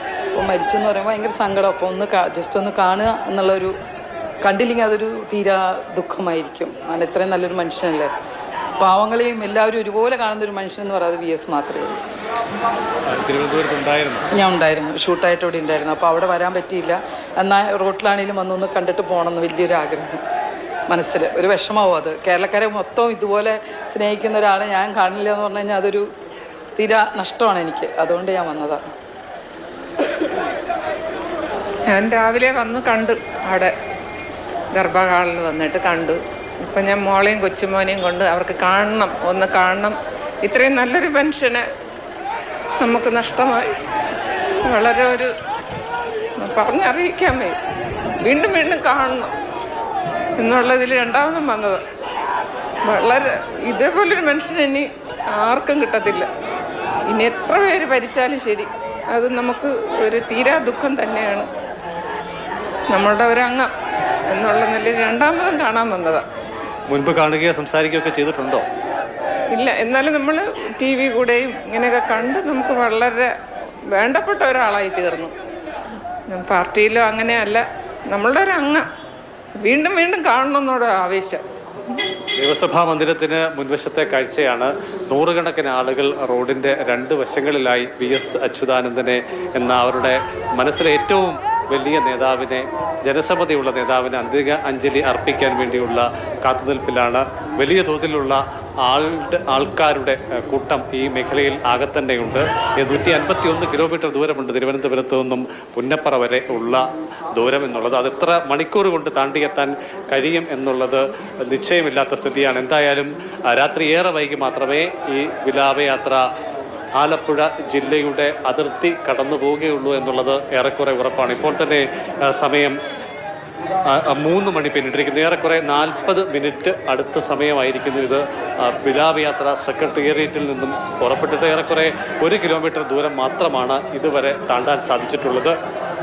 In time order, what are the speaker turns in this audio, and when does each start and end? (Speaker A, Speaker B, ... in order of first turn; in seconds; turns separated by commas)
Speaker A: 0.3-3.7, Speaker A: 4.4-8.1, Speaker A: 8.8-12.0, Speaker B: 13.1-14.3, Speaker A: 14.3-20.2, Speaker A: 20.9-26.1, Speaker A: 26.8-28.9, Speaker C: 31.9-33.7, Speaker C: 34.7-41.6, Speaker C: 42.8-43.7, Speaker C: 44.6-45.3, Speaker C: 46.4-47.6, Speaker C: 48.2-49.3, Speaker C: 50.4-51.8, Speaker C: 52.9-56.3, Speaker C: 57.1-61.5, Speaker C: 62.9-63.7, Speaker C: 64.3-66.2, Speaker B: 66.9-68.6, Speaker C: 69.5-73.3, Speaker C: 73.9-75.3, Speaker C: 76.3-78.8, Speaker C: 79.6-81.4, Speaker B: 82.4-106.8, Speaker B: 107.3-116.2, Speaker B: 117.0-122.8, Speaker B: 123.9-135.5